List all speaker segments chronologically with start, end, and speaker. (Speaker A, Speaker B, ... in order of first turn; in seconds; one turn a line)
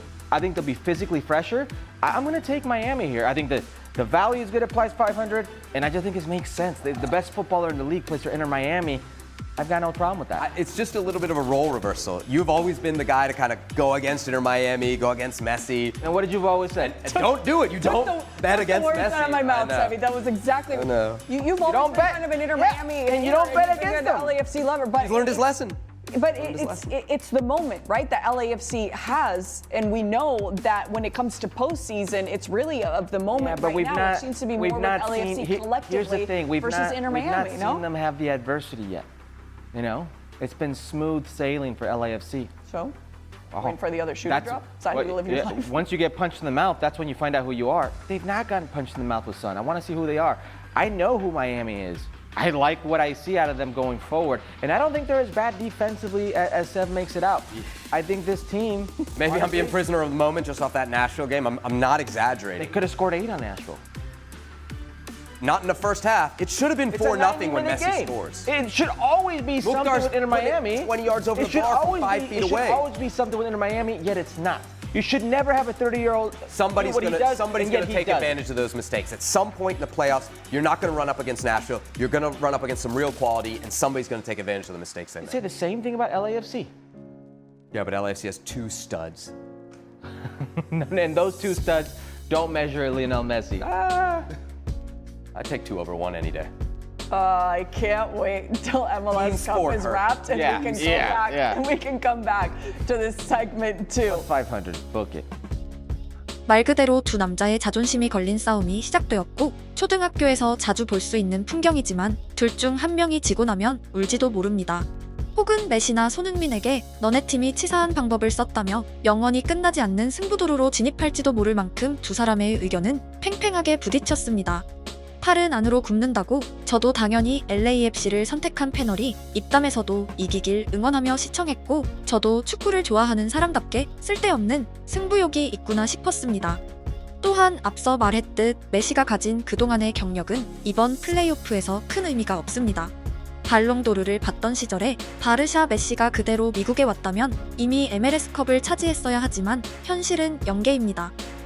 Speaker A: 0.3-9.0
Speaker A: 9.6-10.5
Speaker B: 10.4-16.0
Speaker A: 16.0-16.9
Speaker B: 16.8-20.0
Speaker C: 17.0-25.5
Speaker B: 20.7-21.2
Speaker A: 21.6-24.3
Speaker B: 25.0-25.8
Speaker C: 26.1-37.8
Speaker B: 26.4-26.9
Speaker A: 33.3-39.1
Speaker A: 39.7-42.5
Speaker C: 42.7-42.9
Speaker A: 43.5-59.7
Speaker C: 43.6-45.8
Speaker B: 59.1-62.7
Speaker A: 62.6-63.8
Speaker B: 65.4-68.5
Speaker A: 66.9-78.4
Speaker B: 69.6-72.8
Speaker B: 76.5-85.4
Speaker A: 85.2-86.7
Speaker B: 87.7-89.3
Speaker A: 90.6-93.7
Speaker B: 93.6-94.3
Speaker B: 95.3-96.5
Speaker C: 97.1-104.2
Speaker B: 99.1-101.1
Speaker A: 100.3-101.6
Speaker A: 104.1-105.2
Speaker D: 106.5-124.6
Speaker D: 125.2-136.6
Speaker D: 137.2-142.9
Speaker D: 143.4-151.1